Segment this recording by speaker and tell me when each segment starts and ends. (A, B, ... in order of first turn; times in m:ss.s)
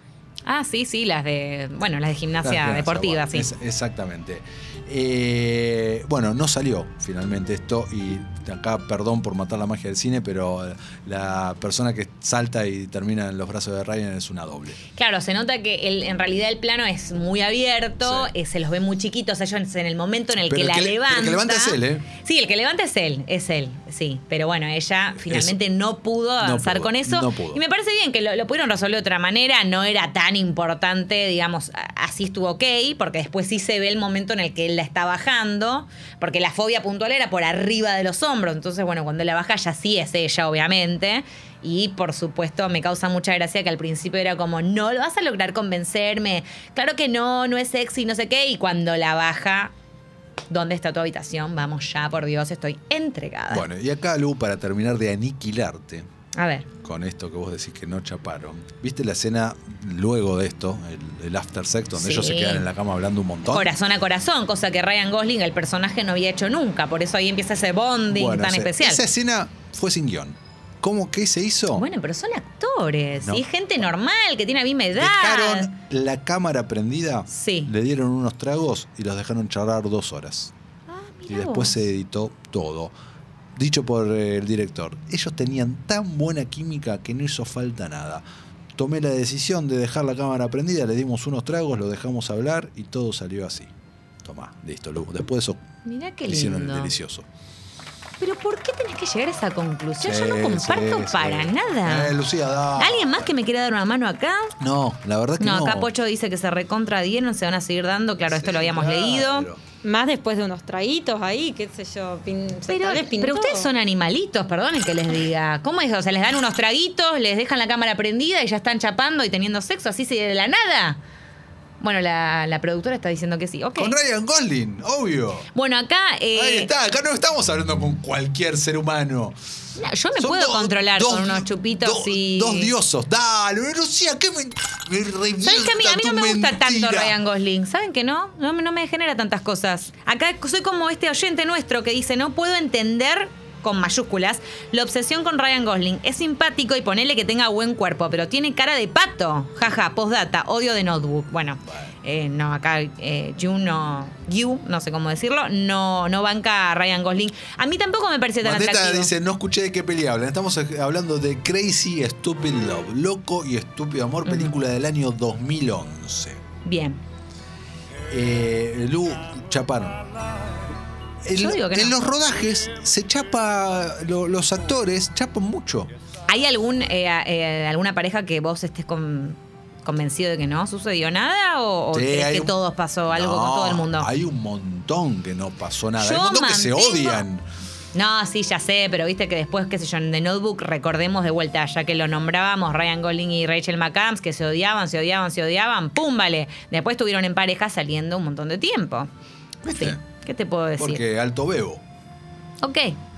0:00.4-0:03.5 A
0:02.4-0:14.8 B
0:14.9-0:49.7 A
0:18.0-0:18.3 B
0:20.4-0:22.1 B
0:25.3-0:25.6 B
0:26.4-0:27.6 B
0:50.5-0:53.7 A
0:53.5-0:56.1 B
0:56.3-0:56.7 A
0:56.8-1:03.7 B
1:02.0-1:02.7 A
1:03.5-1:09.0 A
1:08.1-1:11.8 B
1:11.7-1:15.7 A
1:15.0-1:20.5 B
1:17.3-1:17.7 A
1:20.9-1:21.8 A
1:21.3-1:22.9 B
1:23.6-1:28.2 B
1:28.8-1:33.7 B
1:34.2-1:35.6 B
1:35.8-1:37.0 A
1:36.2-1:37.2 B
1:38.2-1:42.1 A
1:40.0-1:43.3 B
1:42.8-1:44.5 A
1:44.6-1:45.9 B
1:45.4-1:49.5 A
1:48.3-1:49.6 B
1:49.8-1:53.7 C
1:52.7-2:01.0 A
2:01.8-2:04.0 A
2:03.8-2:05.5 B
2:05.5-2:06.7 A
2:06.3-2:09.4 B
2:09.8-2:12.7 A
2:10.2-2:17.2 B
2:15.4-2:39.1 A
2:31.6-2:31.9 B
2:38.4-2:46.4 B
2:44.2-2:44.5 A
2:46.6-2:47.0 A
2:48.1-2:50.0 B
2:51.2-2:55.9 B
2:51.3-2:52.0 A
2:56.3-3:04.1 A
3:01.9-3:02.5 B
3:03.1-3:07.5 B
3:06.0-3:07.2 A
3:07.9-3:19.1 A
3:19.6-3:20.0 B
3:19.7-3:21.0 A
3:20.8-3:21.8 B
3:22.6-3:23.0 A